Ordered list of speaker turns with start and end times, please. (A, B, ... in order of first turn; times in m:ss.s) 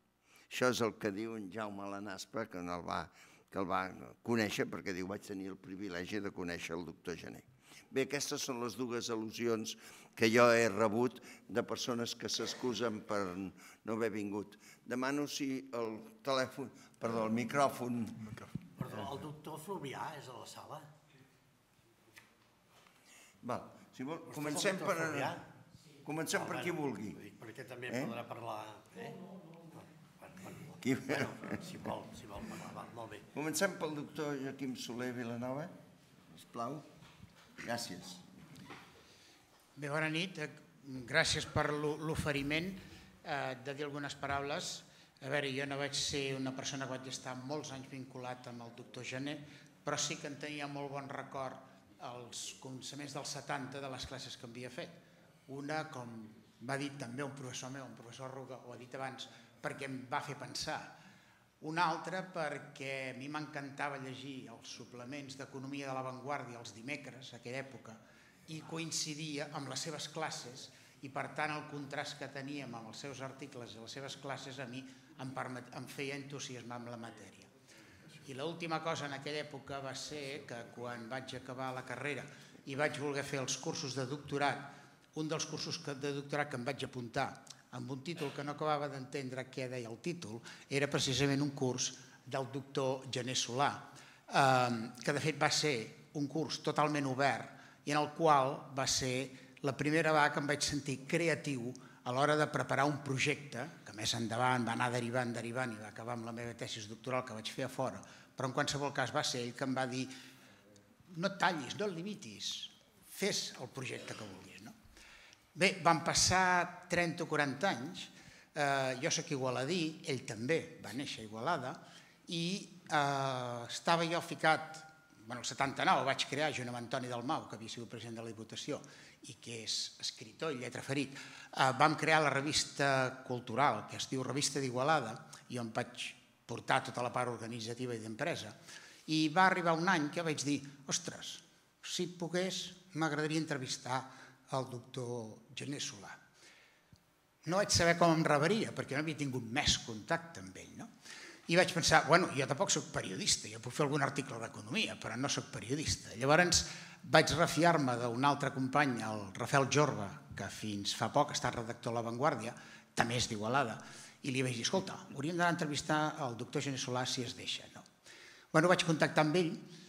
0:00.5-0:18.3 A
0:18.8-0:20.9 B
0:23.4-0:25.4 A
0:24.3-0:25.4 B
0:26.0-0:27.2 A
0:26.3-0:29.2 B
0:30.2-0:33.3 B
0:30.8-0:31.6 A
0:33.3-0:35.7 A
0:36.3-0:36.9 A
0:37.6-0:38.2 A
0:39.8-1:01.0 C
1:01.6-1:17.5 C
1:18.2-1:50.1 C
1:51.1-1:54.8 C
1:55.6-2:26.2 C
2:27.4-2:30.9 C
2:31.5-2:47.9 C
2:48.5-2:49.7 C